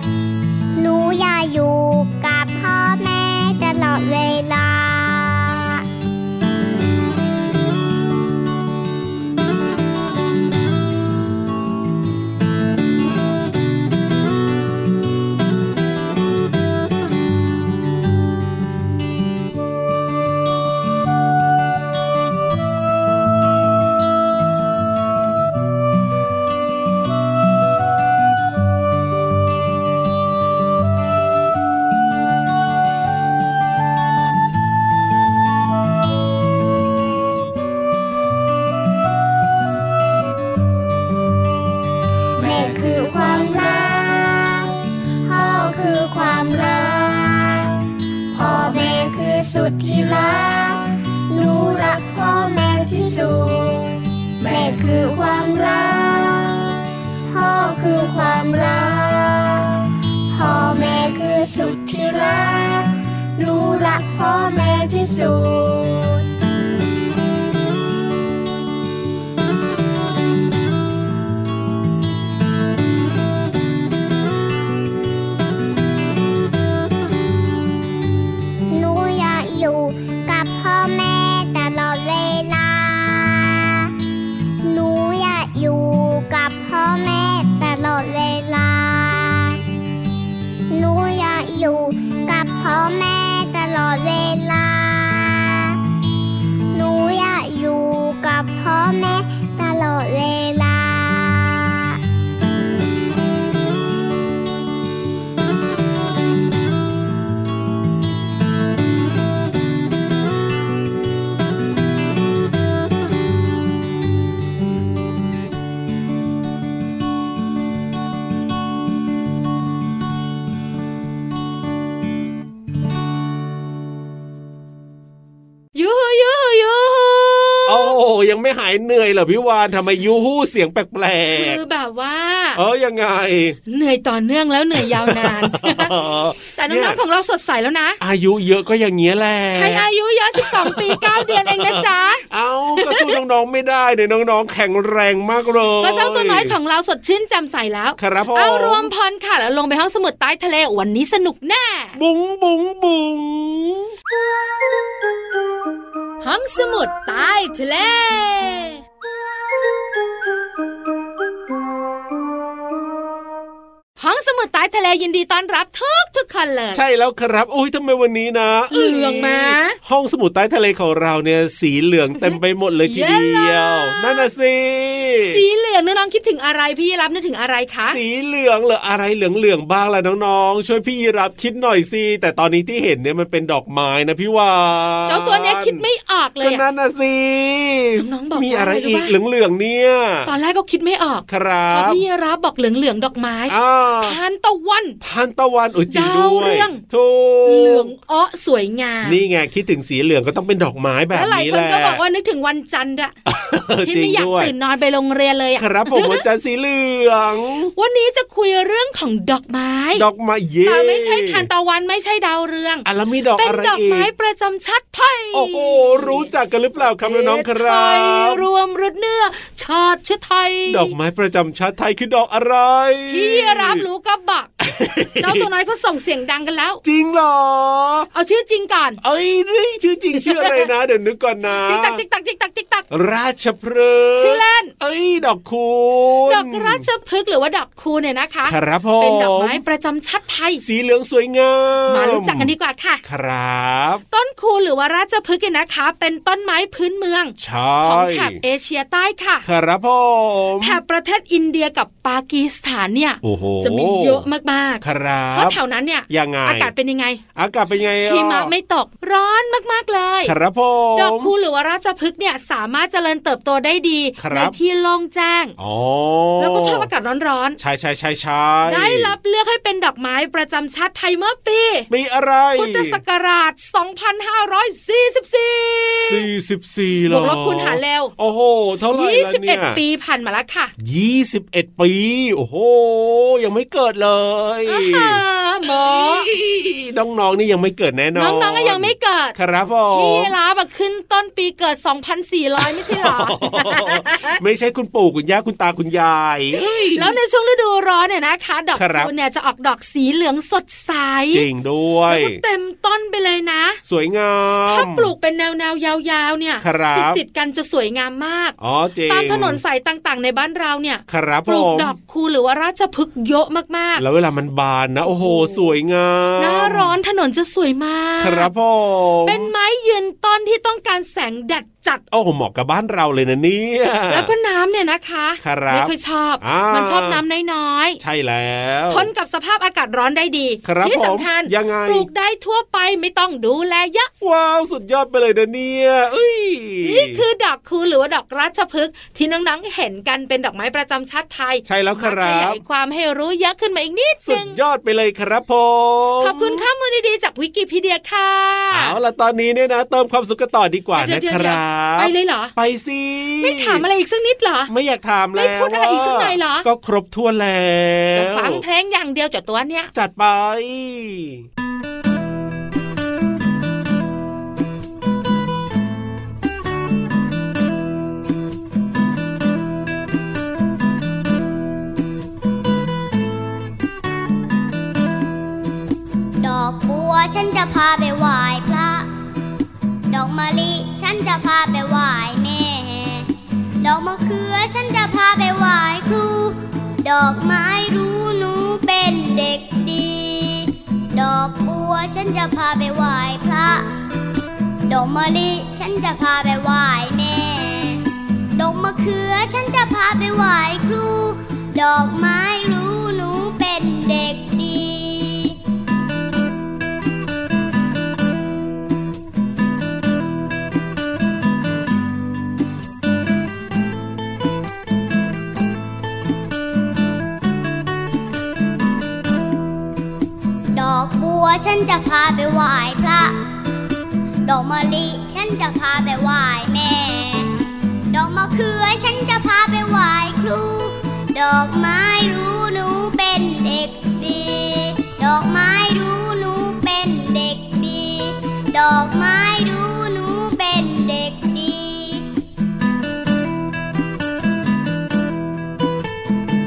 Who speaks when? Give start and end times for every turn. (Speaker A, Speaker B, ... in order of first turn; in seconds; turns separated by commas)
Speaker A: 0.8-5.8, Speaker A: 42.4-47.8, Speaker A: 48.3-56.7, Speaker A: 57.2-59.8, Speaker A: 60.3-66.2, Speaker A: 78.7-83.9, Speaker A: 84.6-89.6, Speaker A: 90.7-95.8, Speaker A: 96.7-102.0, Speaker B: 125.7-127.9, Speaker C: 127.7-131.6, Speaker B: 131.3-132.6, Speaker C: 132.6-133.6, Speaker B: 133.7-138.0, Speaker C: 134.8-137.0, Speaker C: 138.0-146.5, Speaker B: 139.5-142.2, Speaker B: 142.8-143.1, Speaker B: 145.8-152.0, Speaker C: 148.0-148.9, Speaker C: 151.9-153.9, Speaker B: 156.2-158.8, Speaker B: 164.0-166.8, Speaker C: 166.7-175.4, Speaker B: 168.7-169.8, Speaker B: 172.2-174.3, Speaker B: 175.2-178.0, Speaker C: 177.8-185.8, Speaker B: 185.1-186.6, Speaker C: 186.4-190.3, Speaker B: 188.0-189.1, Speaker B: 190.2-195.0, Speaker C: 191.3-192.0, Speaker C: 193.5-194.2, Speaker C: 195.0-197.9, Speaker B: 195.9-196.8, Speaker B: 197.4-199.2, Speaker C: 199.0-202.0, Speaker B: 201.1-203.1, Speaker C: 203.3-204.5, Speaker B: 203.8-206.2, Speaker C: 205.6-207.7, Speaker B: 207.8-210.0, Speaker C: 209.9-211.5, Speaker B: 210.6-212.8, Speaker C: 212.8-214.1, Speaker B: 213.4-216.3, Speaker C: 215.3-218.4, Speaker B: 217.0-220.9, Speaker C: 220.7-223.8, Speaker B: 223.1-224.5, Speaker C: 224.6-225.5, Speaker B: 225.2-226.8, Speaker C: 226.8-228.1, Speaker B: 228.1-229.0, Speaker C: 229.0-232.0, Speaker B: 230.2-230.7, Speaker B: 231.5-232.8, Speaker C: 232.9-236.8, Speaker B: 234.2-234.7, Speaker B: 236.3-240.6, Speaker C: 238.5-239.6, Speaker C: 240.6-242.5, Speaker B: 241.9-243.0, Speaker C: 243.0-244.0, Speaker B: 244.1-249.4, Speaker C: 247.4-248.4, Speaker C: 249.4-250.8, Speaker B: 250.6-257.2, Speaker C: 253.2-254.2, Speaker C: 254.8-255.6, Speaker C: 256.1-256.7, Speaker C: 257.3-258.5, Speaker B: 258.0-260.3, Speaker C: 260.2-261.3, Speaker B: 260.9-265.5, Speaker C: 264.2-264.6, Speaker C: 265.6-266.9, Speaker B: 266.4-267.6, Speaker C: 267.6-269.1, Speaker B: 268.7-271.9, Speaker C: 271.9-273.0, Speaker B: 272.6-276.2, Speaker C: 275.9-279.8, Speaker B: 277.1-278.1, Speaker B: 278.9-280.7, Speaker C: 280.8-290.3, Speaker B: 284.7-286.3, Speaker B: 288.1-289.4, Speaker B: 289.9-294.4, Speaker C: 292.6-297.1, Speaker B: 296.9-301.4, Speaker C: 298.7-299.1, Speaker C: 301.3-302.4, Speaker B: 302.1-303.8, Speaker C: 303.9-305.1, Speaker B: 304.7-308.6, Speaker C: 306.6-307.2, Speaker C: 308.6-309.6, Speaker B: 309.1-314.0, Speaker C: 311.1-311.9, Speaker C: 314.0-316.9, Speaker B: 315.1-315.7, Speaker B: 316.4-318.5, Speaker C: 318.2-319.5, Speaker B: 319.2-322.0, Speaker C: 322.1-324.3, Speaker B: 324.1-328.0, Speaker C: 325.4-327.2, Speaker C: 328.0-329.1, Speaker B: 328.9-334.1, Speaker C: 330.6-332.1, Speaker C: 334.2-337.2, Speaker B: 336.8-344.6, Speaker C: 341.6-342.6, Speaker C: 344.2-346.6, Speaker B: 346.2-348.9, Speaker C: 348.7-353.8, Speaker B: 350.9-352.5, Speaker B: 353.4-354.7, Speaker C: 354.7-358.6, Speaker B: 355.4-356.6, Speaker B: 358.1-359.9, Speaker C: 359.9-361.4, Speaker D: 376.4-379.1, Speaker D: 380.1-383.3, Speaker D: 383.8-393.9, Speaker D: 394.9-398.0, Speaker D: 398.5-405.6, Speaker D: 420.7-423.4, Speaker D: 424.4-427.5, Speaker D: 428.1-442.2